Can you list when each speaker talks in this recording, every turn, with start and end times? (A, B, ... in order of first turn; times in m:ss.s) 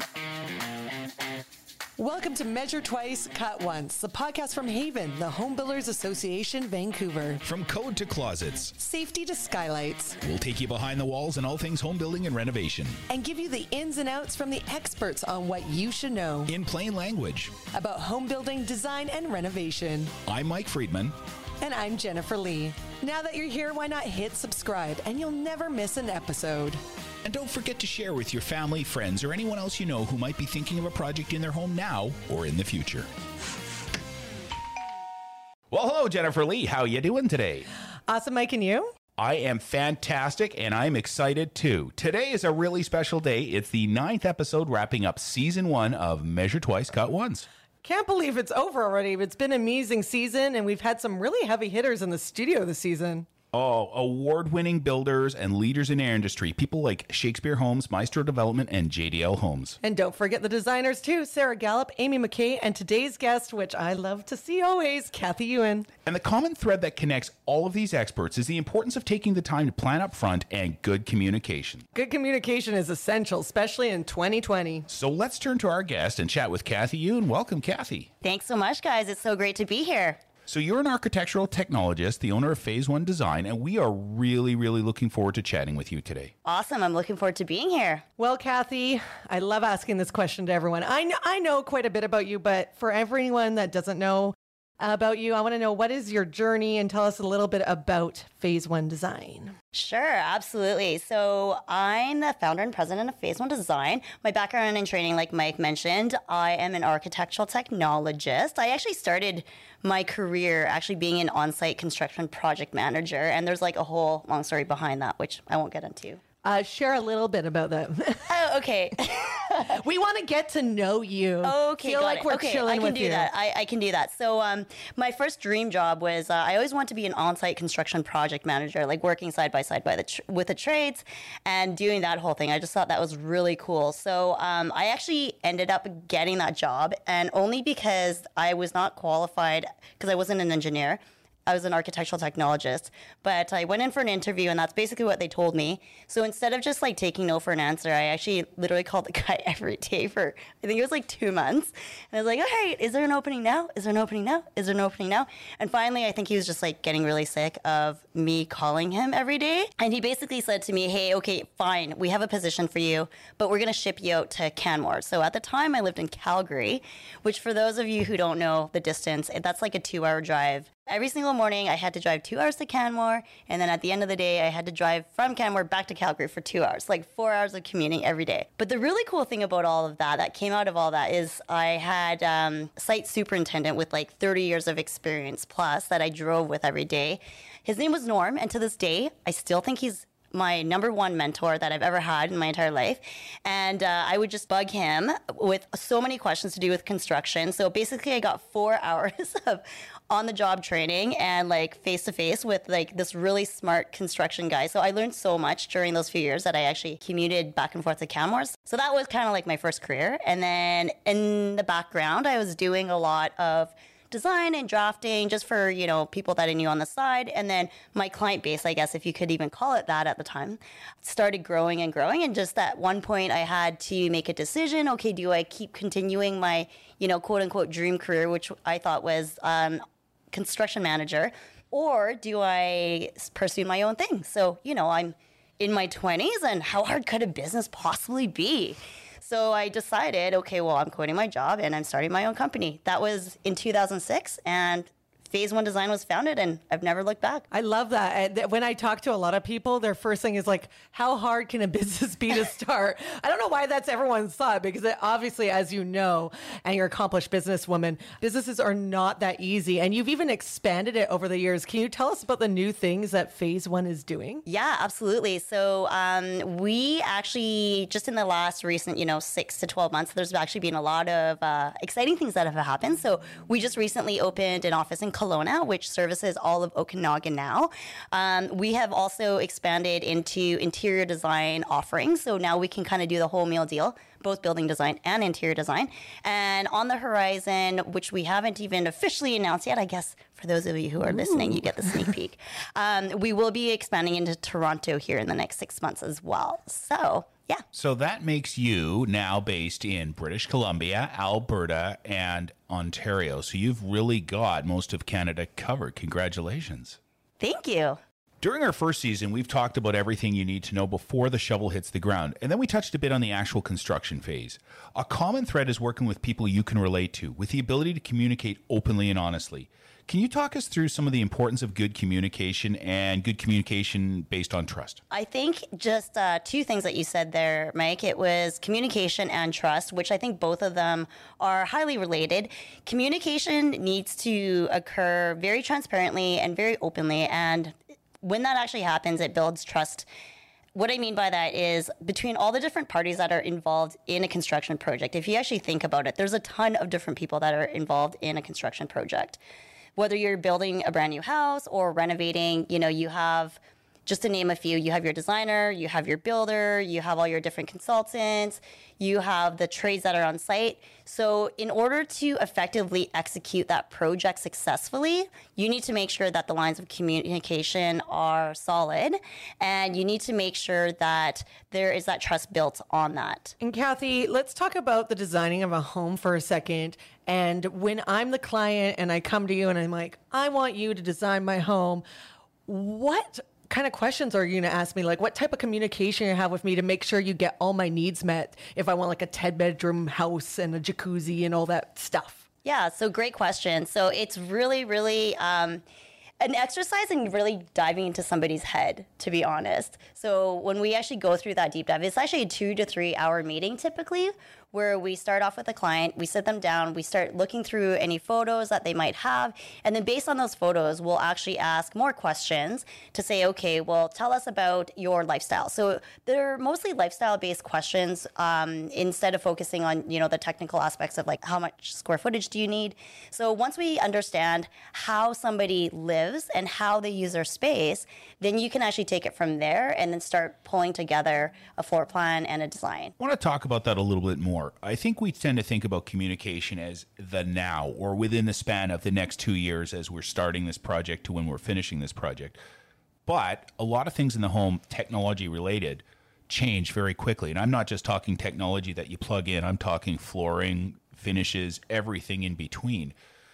0:02.0-0:07.4 A
0:07.4-0:08.8 B
0:08.8-0:10.2 A
0:10.2-0:13.0 B
0:13.1-0:16.5 A
0:16.5-0:17.6 B
0:17.7-0:20.2 A
0:20.2-0:21.2 B
0:21.6-0:26.8 A
0:27.2-0:33.1 B
0:35.7-0:37.7 B
0:38.1-0:38.9 A
0:39.2-0:47.5 B
0:47.8-0:53.3 A
0:53.5-0:59.8 B
0:59.8-1:05.9 A
1:06.0-1:11.8 B
1:11.9-1:14.9 A
1:14.9-1:18.1 B
1:18.2-1:20.2 C
1:20.5-1:26.3 B
1:26.4-1:28.0 C
1:28.2-1:39.6 A
1:39.7-1:56.2 C
1:56.4-1:58.3 A
1:58.3-1:59.8 C
1:59.7-2:03.3 A
2:01.4-4:07.4 C
4:07.5-4:24.4 A
4:24.5-4:57.6 C
4:57.7-5:07.0 B
5:07.4-5:08.0 C
5:08.4-5:25.0 B
5:25.1-5:40.1 C
5:40.8-5:49.4 C
5:50.0-6:13.5 C
6:13.6-6:22.0 A
6:22.7-6:32.4 A
6:32.6-6:35.8 C
6:36.4-7:13.1 C
7:13.2-7:22.6 B
7:23.3-7:33.2 B